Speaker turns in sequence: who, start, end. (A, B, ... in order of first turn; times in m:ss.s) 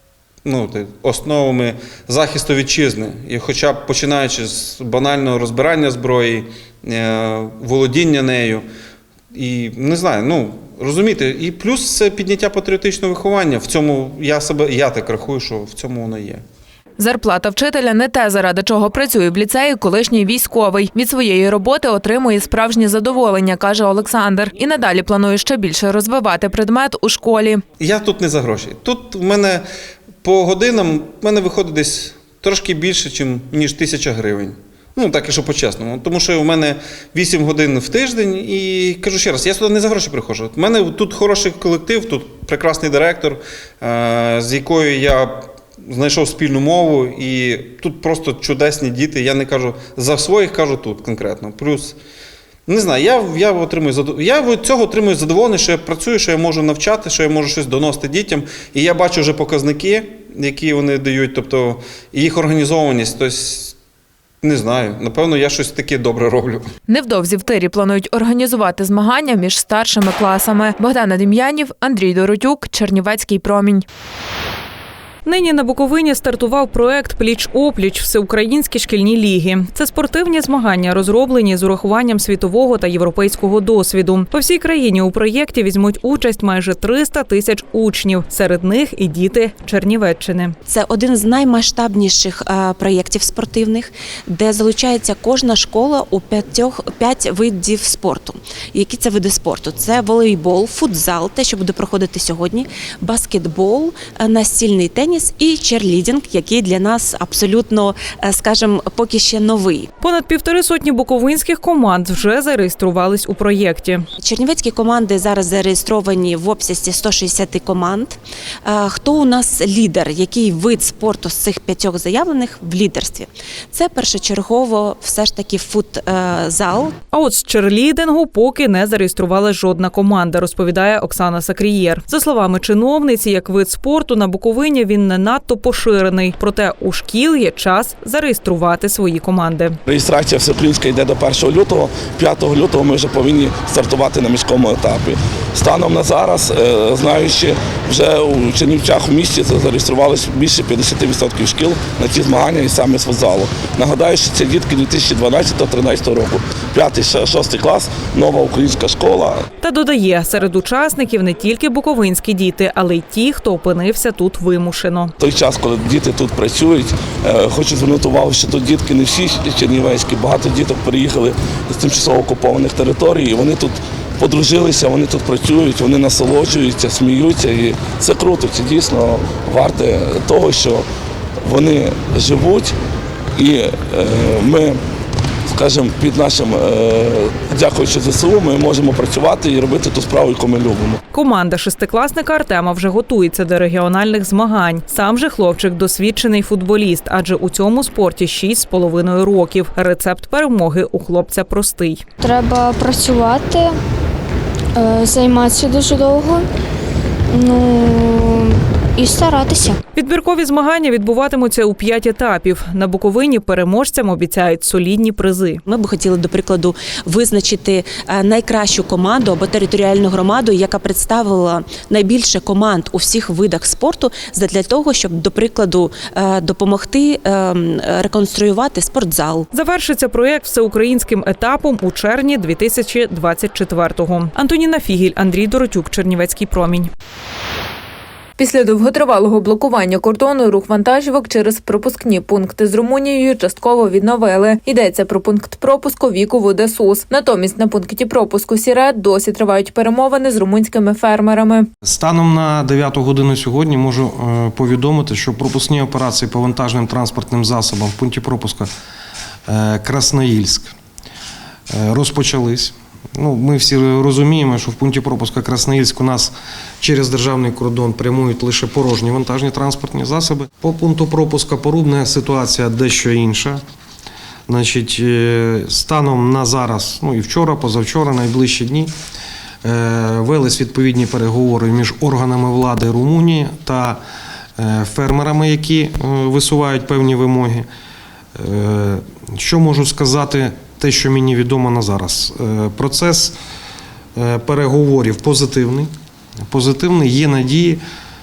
0:00.4-0:08.6 A
0:09.3-0:16.4 A
0:17.0-0:27.6 B
0:27.8-0:29.6 A
0:30.2-0:52.0 A
0:52.7-1:03.8 A
1:04.4-1:06.6 A
1:06.9-1:13.8 B
1:15.2-1:30.6 C
1:30.7-1:49.9 D
1:50.0-1:54.0 C
1:54.2-2:07.0 D
2:07.1-2:19.8 C
2:19.9-2:39.3 E
2:39.6-2:45.1 C
2:45.2-3:00.8 E
3:01.5-3:02.6 E
3:03.4-3:04.7 E
3:05.5-3:10.8 E
3:11.1-3:22.0 C
3:22.2-3:23.7 F
3:24.8-3:26.4 F
3:27.4-3:29.8 F
3:29.9-3:35.6 C
3:35.7-3:49.5 D
3:49.5-3:56.9 C
3:58.4-4:11.7 B
4:11.8-4:18.7 G
4:19.5-4:20.7 G
4:21.7-4:33.6 G
4:34.5-4:38.9 G
4:39.6-4:44.0 G
4:44.6-4:47.7 G
4:48.4-4:53.4 G
4:54.2-4:55.9 G
4:56.5-4:57.8 G